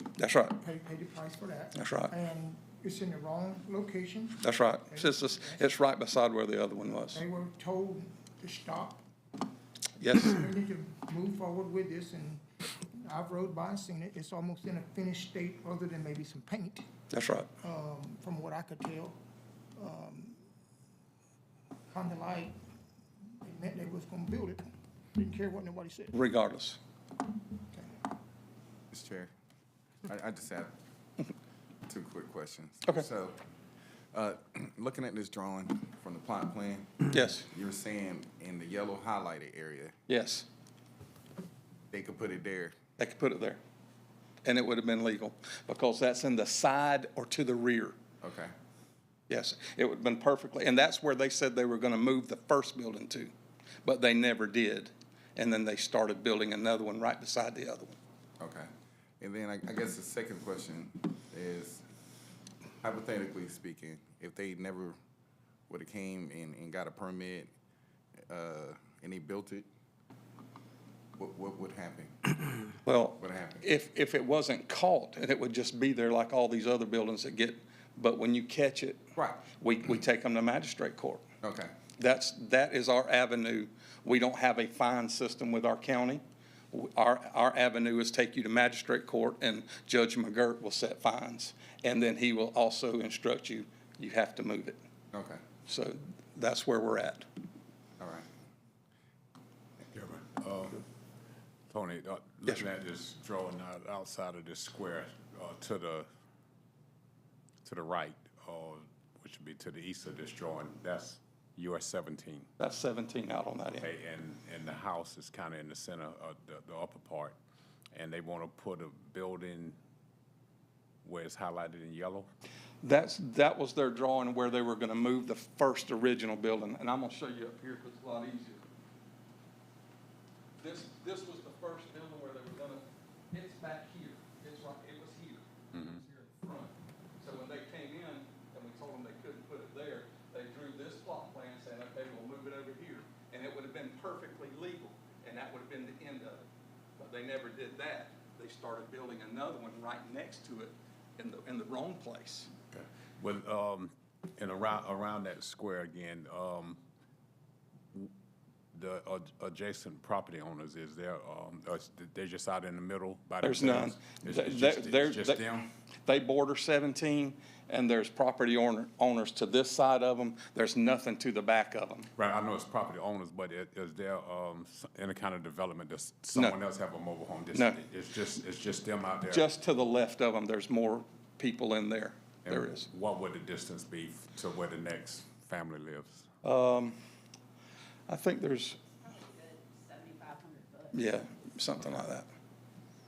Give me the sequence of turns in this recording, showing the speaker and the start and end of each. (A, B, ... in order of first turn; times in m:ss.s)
0:00.2-0:00.6 A
0:00.4-0:05.8 B
0:01.7-0:02.1 A
0:04.4-0:07.2 A
0:07.1-0:09.0 B
0:10.0-0:10.3 A
0:10.1-0:16.8 B
0:17.1-0:17.5 A
0:17.6-0:19.2 B
0:19.8-0:20.4 B
0:21.9-0:22.5 B
0:23.4-0:26.1 B
0:26.1-0:26.8 A
0:28.9-0:29.3 C
0:30.0-0:30.7 C
0:31.9-0:33.4 C
0:34.1-0:40.0 C
0:37.1-0:37.5 A
0:40.1-0:40.5 A
0:41.9-0:42.7 C
0:43.0-0:43.6 A
0:44.4-0:48.0 A
0:48.2-0:48.5 C
0:49.3-0:53.3 A
0:53.8-0:58.0 A
0:58.4-0:58.7 C
0:59.2-1:01.8 C
1:02.8-1:05.0 C
1:05.7-1:07.5 C
1:08.3-1:09.7 C
1:11.2-1:12.5 C
1:12.8-1:21.2 A
1:13.2-1:13.6 C
1:19.1-1:19.4 C
1:21.4-1:21.7 C
1:22.0-1:34.8 A
1:35.1-1:35.4 C
1:35.7-1:37.2 A
1:38.0-1:38.3 C
1:39.9-1:40.8 D
1:41.7-1:46.1 D
1:47.6-1:52.5 D
1:52.6-1:53.9 A
1:53.8-1:57.4 D
1:57.9-1:59.8 D
2:01.0-2:02.3 D
2:02.8-2:08.6 A
2:10.6-2:26.4 A
2:27.0-2:32.5 A
2:32.7-2:36.8 D
2:38.7-2:45.7 D
2:43.4-2:45.4 A
2:46.0-2:52.1 A
2:52.2-2:59.5 D
2:59.3-3:02.9 A
3:02.4-3:06.3 D
3:06.4-3:07.0 A
3:08.1-3:08.8 A
3:09.0-3:11.0 E
3:10.9-3:12.3 A